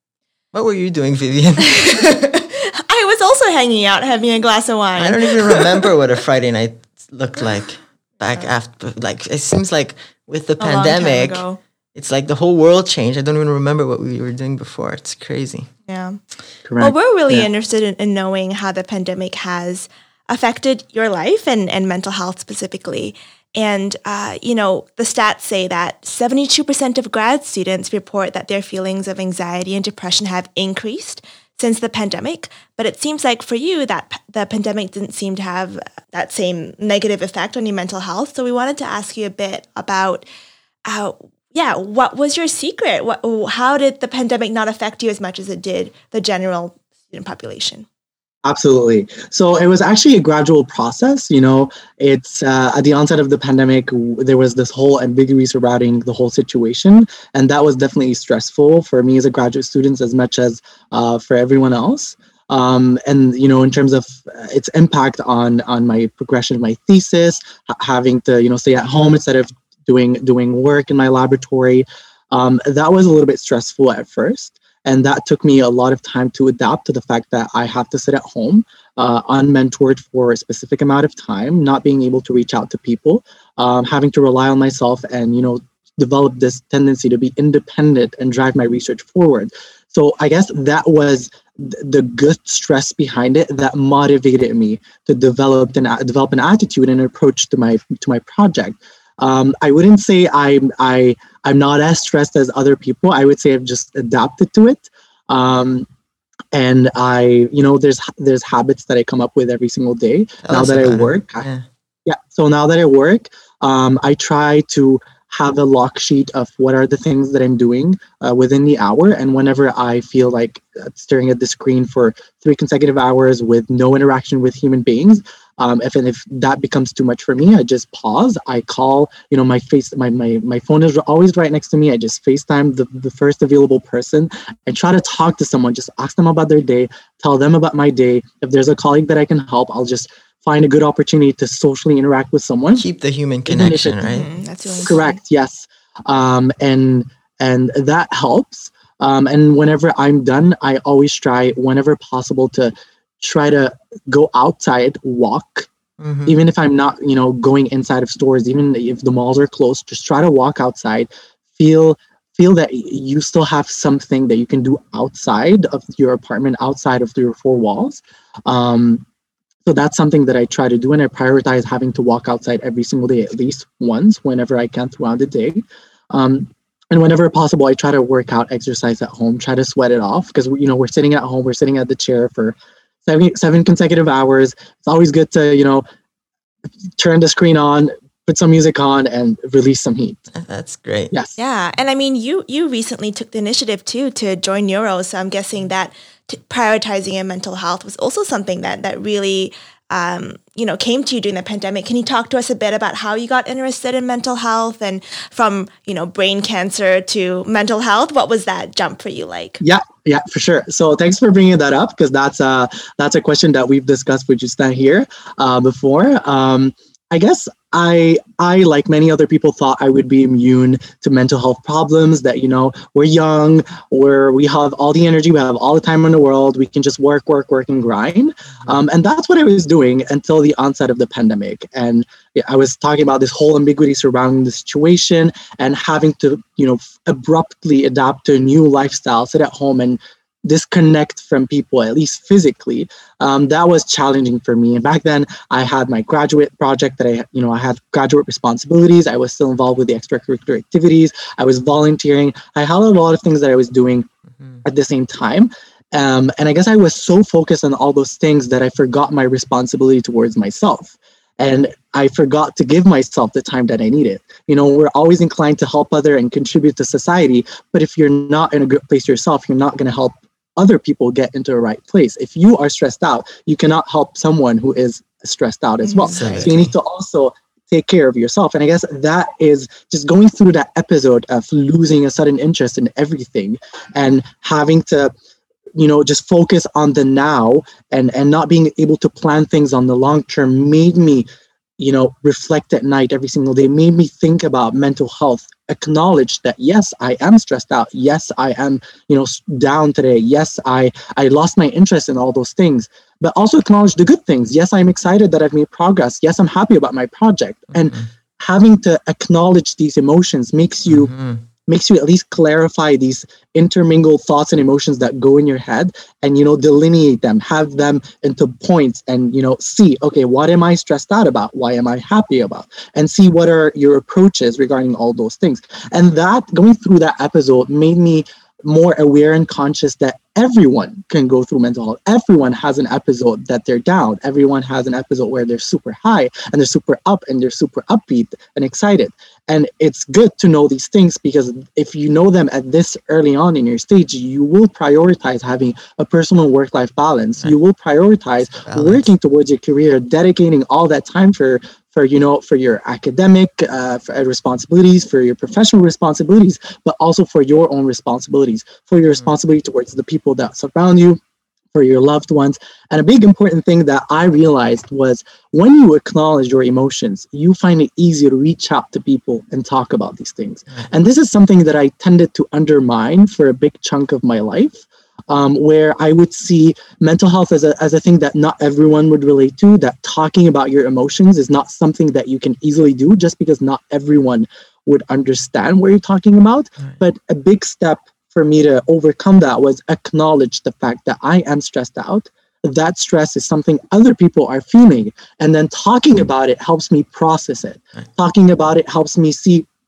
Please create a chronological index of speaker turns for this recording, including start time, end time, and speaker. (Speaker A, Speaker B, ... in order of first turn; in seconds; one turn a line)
Speaker A: 0.5-2.1
Speaker B: 1.6-5.8
Speaker A: 5.0-11.4
Speaker B: 10.6-11.6
Speaker A: 11.9-15.7
Speaker B: 15.9-16.2
Speaker C: 16.6-17.5
Speaker B: 16.8-40.2
Speaker B: 40.9-47.9
Speaker C: 48.5-105.9
Speaker C: 106.5-111.5
Speaker A: 110.4-111.7
Speaker C: 112.1-142.8
Speaker A: 142.8-144.3
Speaker C: 143.5-144.2
Speaker B: 144.1-145.2
Speaker C: 144.8-155.7
Speaker A: 156.0-156.4
Speaker C: 156.3-169.1
Speaker C: 169.7-185.8
Speaker C: 187.0-190.2
Speaker A: 190.3-191.1
Speaker C: 191.1-191.4
Speaker B: 191.4-209.6
Speaker C: 209.6-254.1
Speaker C: 254.6-285.1
Speaker B: 275.8-276.5
Speaker A: 276.1-276.7
Speaker C: 285.8-291.3
Speaker C: 291.8-311.1
Speaker A: 307.7-308.1
Speaker A: 310.9-311.4
Speaker C: 311.7-361.2
Speaker A: 348.5-349.1
Speaker C: 361.7-399.7